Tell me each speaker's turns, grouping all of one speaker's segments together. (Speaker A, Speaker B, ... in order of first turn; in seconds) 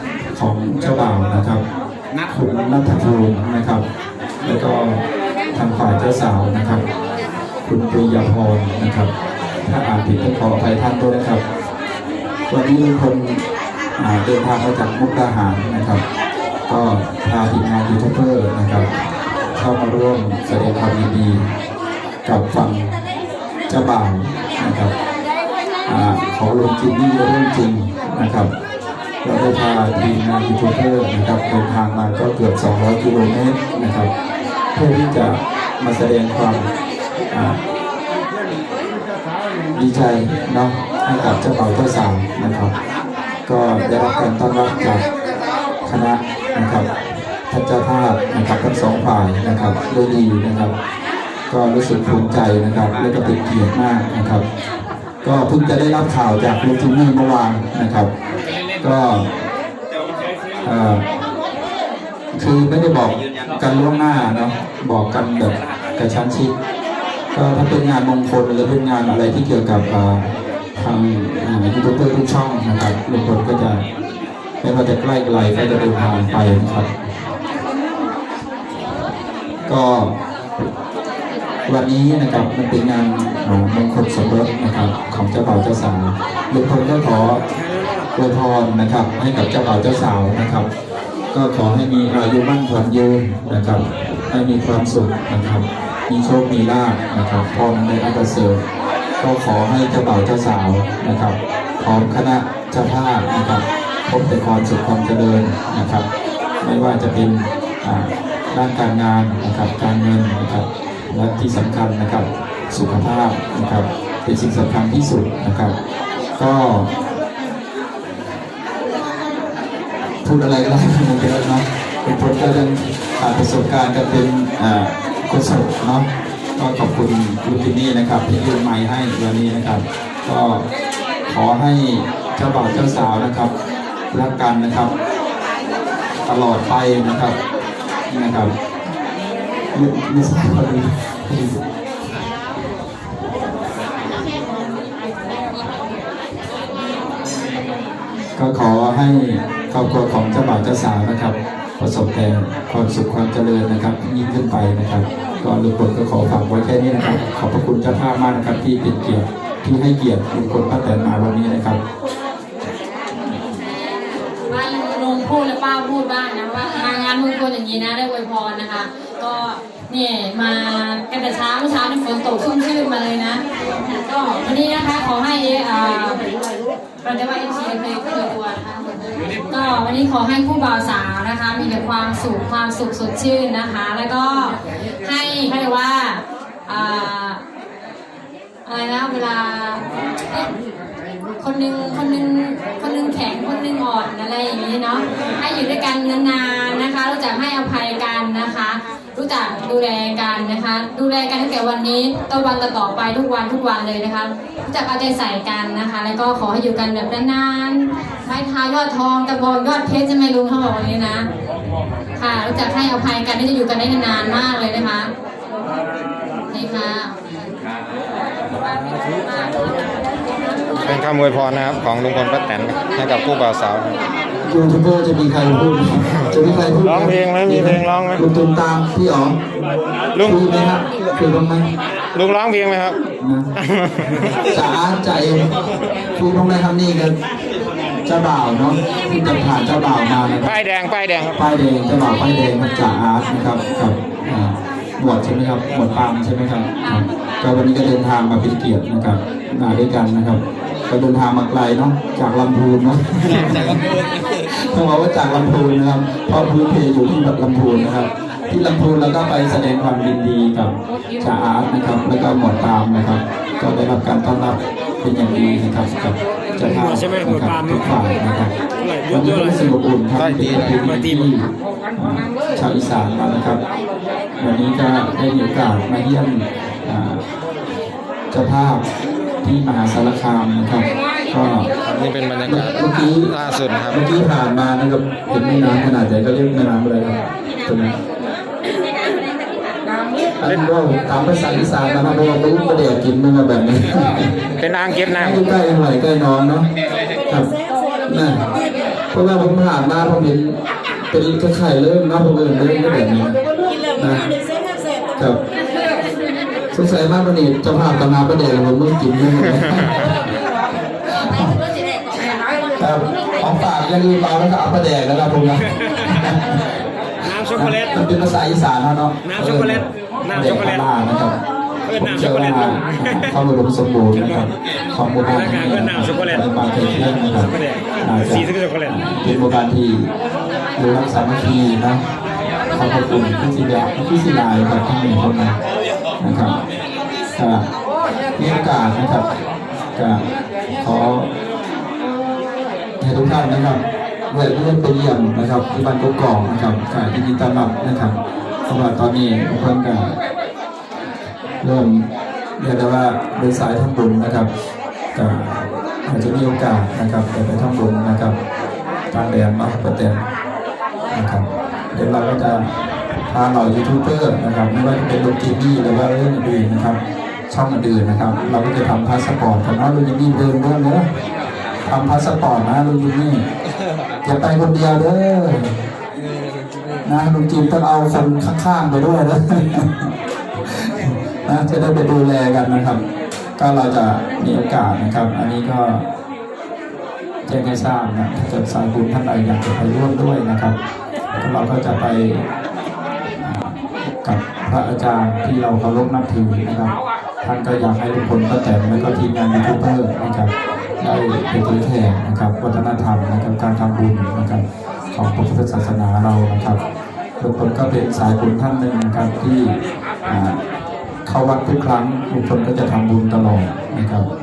Speaker A: 0.3-1.6, 2.3-3.8, 4.4-6.8, 7.7-9.1, 9.6-11.4, 12.5-13.4, 13.9-16.0, 16.7-18.9, 19.5-21.4, 22.2-23.0, 23.7-24.9, 25.9-28.5, 29.2-34.1, 34.7-36.7, 37.3-37.6, 39.7-42.7, 43.5-45.0, 45.8-46.9, 47.5-50.7, 51.5-54.5, 55.2-58.1, 58.8-59.3, 60.6-61.0, 62.3-66.5, 67.3-73.8, 74.6-76.9, 79.7-80.1, 81.7-87.4, 88.1-90.7, 91.3-98.6, 99.2-106.1, 106.6-115.8, 116.4-116.9, 120.2-130.6, 131.3-133.5, 134.1-134.9, 136.2-137.4, 138.1-138.5, 139.7-141.6, 148.3-161.8, 224.4-229.4, 230.2-231.7, 233.2-233.5, 234.5-235.5, 236.2-237.2, 238.0-240.6, 241.3-268.5, 269.1-273.6, 274.4-277.2, 278.3-278.8, 279.4-281.7, 282.4-283.4, 283.9-288.0, 290.4-294.3, 295.1-296.7, 298.1-298.5, 299.1-300.6, 301.1-303.3, 303.9-304.3, 305.1-305.4, 306.7-310.2, 311.2-311.6, 312.8-316.6, 317.5-321.4, 321.9-330.1, 330.8-332.0, 332.7-335.6, 336.2-336.6, 337.3-337.7, 338.4-339.3, 339.9-340.2, 340.8-341.3, 343.0-350.1, 351.6-352.1, 352.6-354.5, 355.1-358.4, 359.1-360.2, 361.1-362.7, 363.3-367.0, 367.5-371.1, 371.8-373.4, 374.2-375.8, 377.0-380.1, 380.6-383.0, 383.6-386.0, 387.4-390.8, 391.4-392.4, 393.4-406.8, 407.4-410.6, 411.2-414.3
Speaker B: 164.4-176.2, 177.0-187.4, 188.7-190.5, 191.4-211.3, 212.2-215.1, 216.5-217.2, 218.5-220.9
Speaker C: 220.8-224.0, 226.3-228.2, 230.1-230.4, 232.1-233.0, 233.6-234.3, 240.5-241.3, 270.2-271.0, 281.8-284.0, 294.6-295.4